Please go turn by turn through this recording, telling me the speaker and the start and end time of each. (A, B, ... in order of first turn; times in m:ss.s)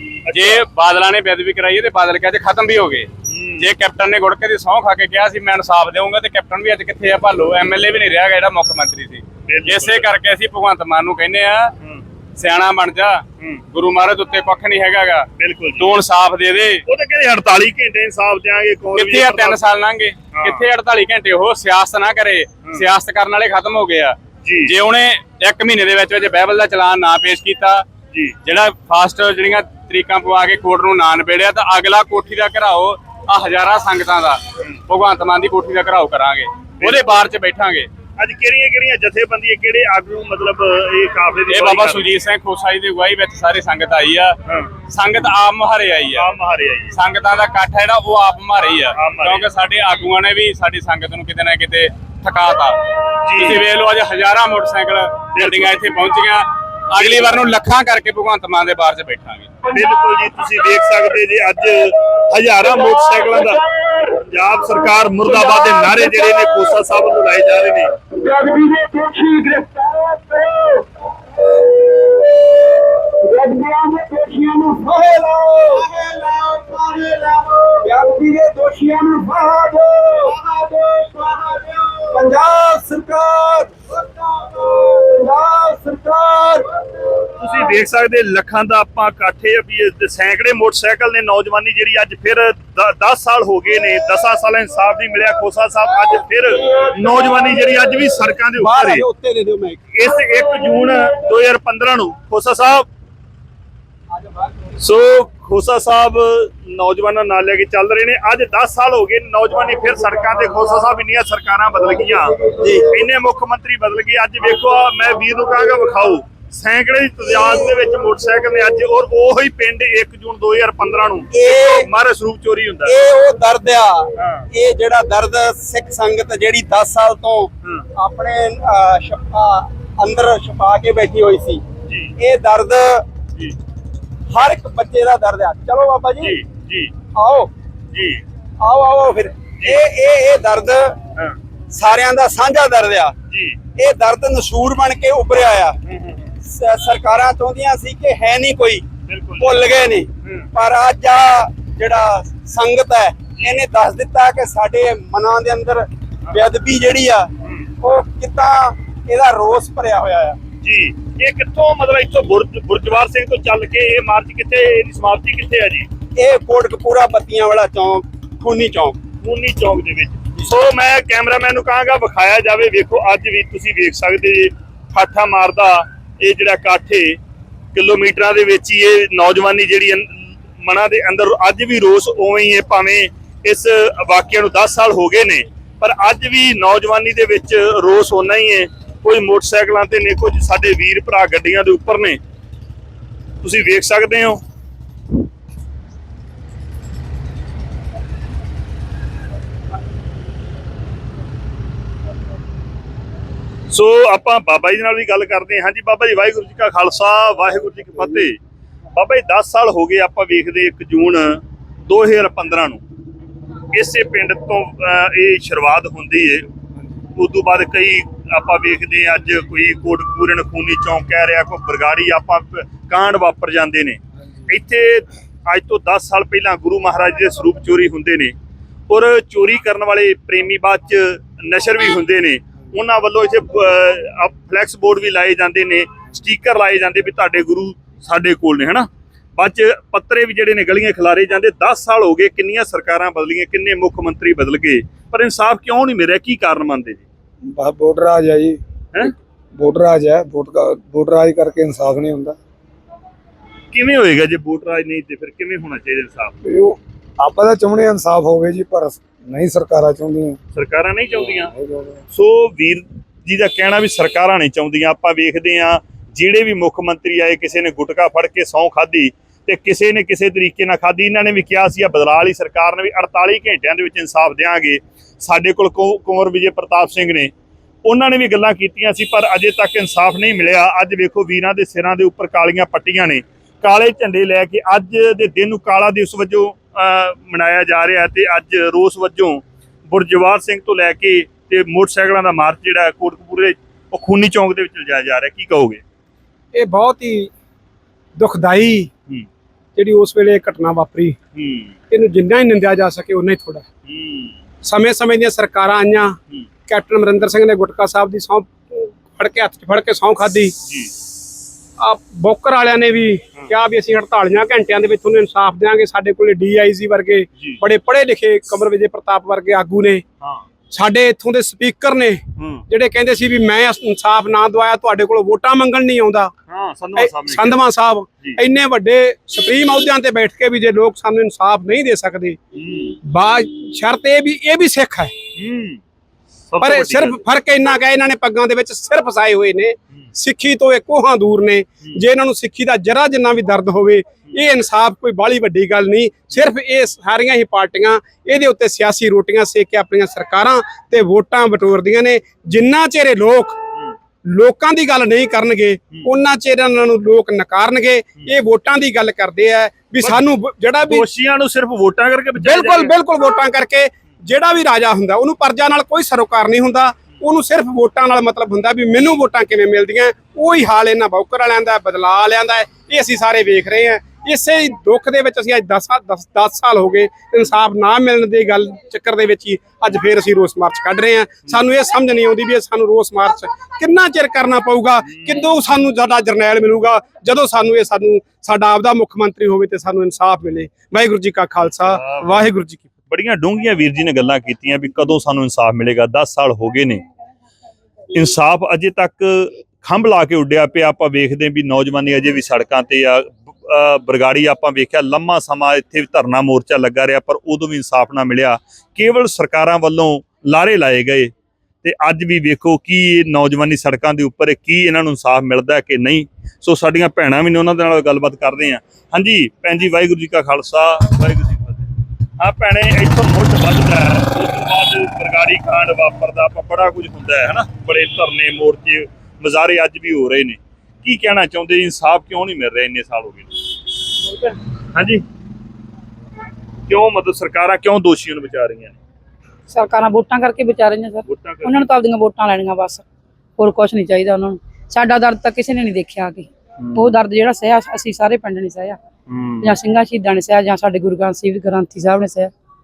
0:00.3-0:00.6 A
0:00.3-0:11.7 B
0:03.3-0:03.7 A
0:09.5-0:10.1 A
0:12.4-0:16.8 B
0:15.4-0:15.9 A
0:16.9-0:19.7 A
0:18.9-0:27.9 B
0:20.3-0:20.6 A
0:24.4-0:24.7 A
0:28.4-0:37.9 B
0:36.8-0:37.3 A
0:38.2-0:42.1 A
0:41.5-0:46.3 B
0:44.5-0:44.7 A
0:46.1-0:46.9 A
0:46.9-0:59.5 B
0:49.0-0:49.5 A
0:53.2-0:53.6 A
0:55.4-0:55.9 A
0:57.0-0:57.3 A
0:59.7-1:07.9 A
1:08.3-1:10.2 C
1:13.3-1:26.6 C
1:27.4-1:39.0 A
1:38.6-1:39.8 D
1:39.9-1:42.9 A
1:44.8-2:03.0 A
1:52.5-1:52.8 C
2:01.3-2:01.9 C
2:02.8-2:11.6 C
2:04.2-2:04.5 A
2:11.9-2:12.1 A
2:12.2-2:13.0 C
2:14.3-2:16.4 C
2:16.2-2:16.9 A
2:17.1-2:17.5 C
2:17.9-2:18.2 A
2:18.6-2:20.9 C
2:21.7-2:23.2 C
2:23.3-2:23.6 A
2:23.8-2:25.8 C
2:25.9-2:26.2 A
2:26.4-2:28.9 C
2:29.1-2:29.6 A
2:29.4-2:37.3 C
2:37.4-2:37.7 A
2:37.8-2:40.4 C
2:40.6-2:45.9 A
2:46.2-2:49.0 C
2:49.2-2:57.2 A
2:57.7-3:12.2 A
3:13.4-3:14.4 A
3:23.7-3:28.4 A
3:29.0-3:32.8 A
3:33.7-3:36.5 A
3:37.2-3:48.3 A
3:48.9-4:07.0 A
4:07.5-4:08.6 E
4:09.6-4:12.4 E
4:13.7-4:16.3 A
4:16.4-4:20.4 E
4:20.5-4:21.5 A
4:21.2-4:22.0 E
4:22.1-4:37.3 A
4:37.8-4:55.8 A
4:56.5-4:57.3 D
4:58.2-4:58.9 D
4:59.8-5:01.2 D
5:01.4-5:01.8 A
5:01.9-5:03.6 D
5:03.9-5:04.4 A
5:04.6-5:06.2 D
5:06.7-5:10.5 D
5:10.6-5:10.9 A
5:11.8-5:20.0 D
5:17.4-5:17.6 A
5:20.2-5:20.5 A
5:20.7-5:26.3 D
5:22.4-5:22.6 A
5:26.5-5:27.6 A
5:27.0-5:32.4 D
5:32.5-5:33.0 A
5:33.1-5:35.1 D
5:35.4-5:35.8 A
5:36.5-5:37.2 A
5:36.6-5:53.6 D
5:54.3-6:01.0 D
6:00.8-6:02.9 A
6:02.4-6:32.9 D
6:25.1-6:25.4 A
6:31.8-6:32.5 A
6:33.1-6:37.0 A
6:38.1-6:51.3 A
6:51.8-7:01.9 A
7:02.4-7:13.8 A
7:14.2-7:14.6 F
7:15.0-7:15.2 A
7:16.9-7:19.0 A
7:19.7-7:23.0 F
7:21.3-7:21.7 A
7:23.6-7:29.0 F
7:26.8-7:27.2 A
7:29.3-7:29.8 A
7:29.6-7:32.5 F